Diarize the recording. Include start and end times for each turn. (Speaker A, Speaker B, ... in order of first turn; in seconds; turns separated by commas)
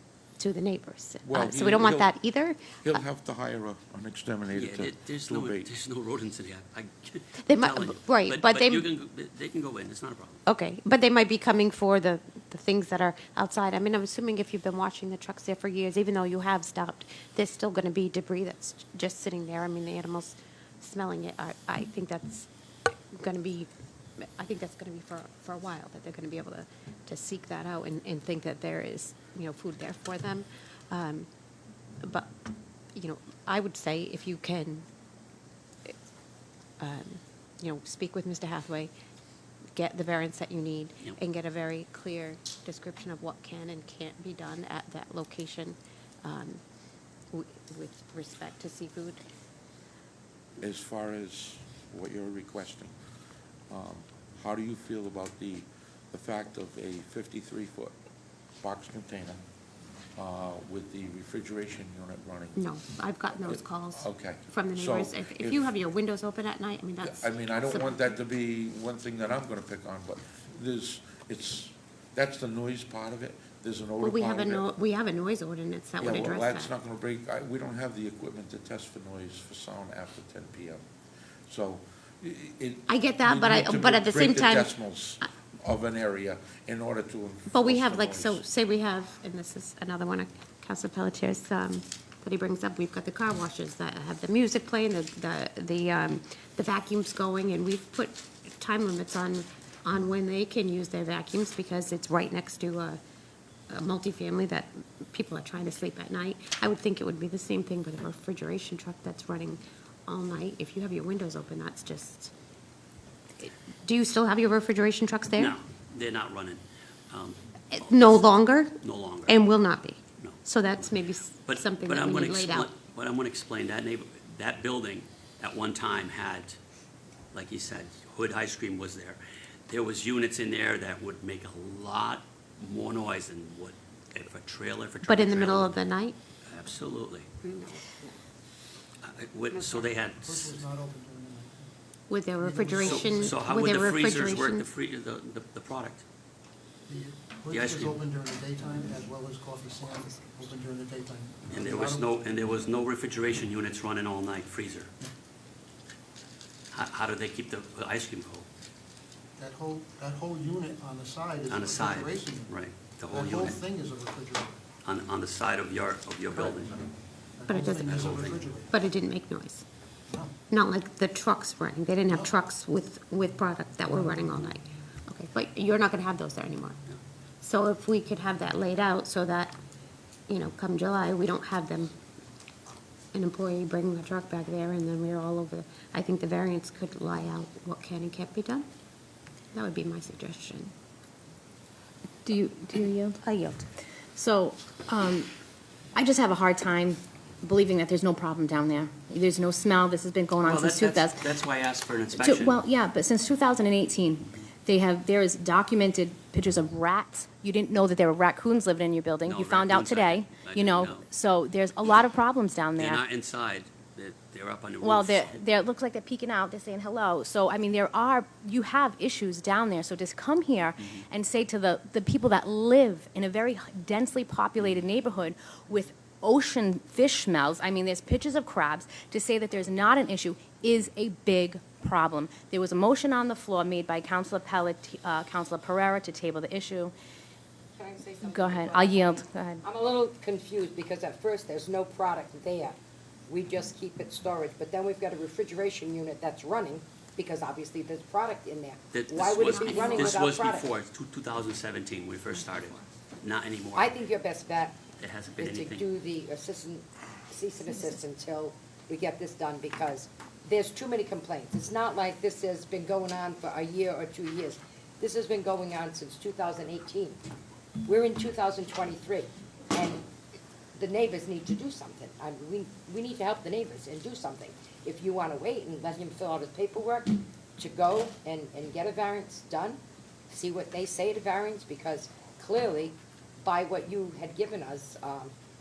Speaker A: 0.4-3.0, Speaker B: 1.2-2.2, Speaker B: 2.8-5.7, Speaker C: 4.5-10.4, Speaker A: 7.4-8.9, Speaker A: 10.5-22.5, Speaker A: 23.2-23.7, Speaker A: 24.2-31.3, Speaker A: 32.0-32.3, Speaker A: 32.9-34.9, Speaker A: 36.8-38.9, Speaker A: 39.7-46.6, Speaker A: 47.3-49.2, Speaker B: 50.6-52.9, Speaker B: 53.7-57.9, Speaker B: 58.6-59.4, Speaker B: 60.1-62.6, Speaker A: 62.5-68.0, Speaker B: 63.4-65.8, Speaker B: 67.0-74.7, Speaker A: 74.0-76.7, Speaker B: 76.0-80.8, Speaker B: 81.5-88.4, Speaker A: 82.9-84.7, Speaker A: 87.5-103.0, Speaker A: 103.7-112.3, Speaker A: 113.4-115.6, Speaker C: 115.3-119.4, Speaker A: 117.7-122.7, Speaker C: 120.2-120.8, Speaker C: 121.4-126.6, Speaker C: 127.3-135.8, Speaker A: 135.0-136.2, Speaker C: 136.4-137.3, Speaker A: 137.4-137.8, Speaker C: 139.0-140.6, Speaker D: 139.5-141.7, Speaker A: 142.1-144.7, Speaker D: 142.3-143.7, Speaker C: 142.8-146.0, Speaker D: 146.8-152.1, Speaker C: 147.5-148.0, Speaker C: 151.5-154.9, Speaker C: 156.7-158.4, Speaker D: 159.4-164.6, Speaker C: 161.5-163.6, Speaker C: 164.8-166.8, Speaker D: 166.3-168.9, Speaker A: 167.5-167.9, Speaker C: 167.8-168.5, Speaker A: 168.7-169.6, Speaker D: 170.1-170.3, Speaker A: 170.5-176.8, Speaker D: 172.1-172.3, Speaker D: 173.9-174.5, Speaker A: 177.4-179.5, Speaker A: 180.3-181.9, Speaker A: 183.1-188.6, Speaker A: 189.5-190.7, Speaker E: 192.2-193.3, Speaker A: 193.2-193.6, Speaker E: 194.1-195.3, Speaker E: 195.9-201.2, Speaker C: 200.4-202.6, Speaker E: 202.2-213.0, Speaker C: 209.2-211.0, Speaker C: 212.8-215.4, Speaker E: 214.8-236.9, Speaker C: 220.8-221.0, Speaker F: 237.8-242.8, Speaker E: 238.2-239.6, Speaker F: 243.3-250.7, Speaker C: 248.9-253.9, Speaker F: 253.7-254.8, Speaker C: 255.0-255.9, Speaker F: 255.4-267.2, Speaker F: 267.8-270.0, Speaker F: 270.7-279.8, Speaker F: 280.3-285.3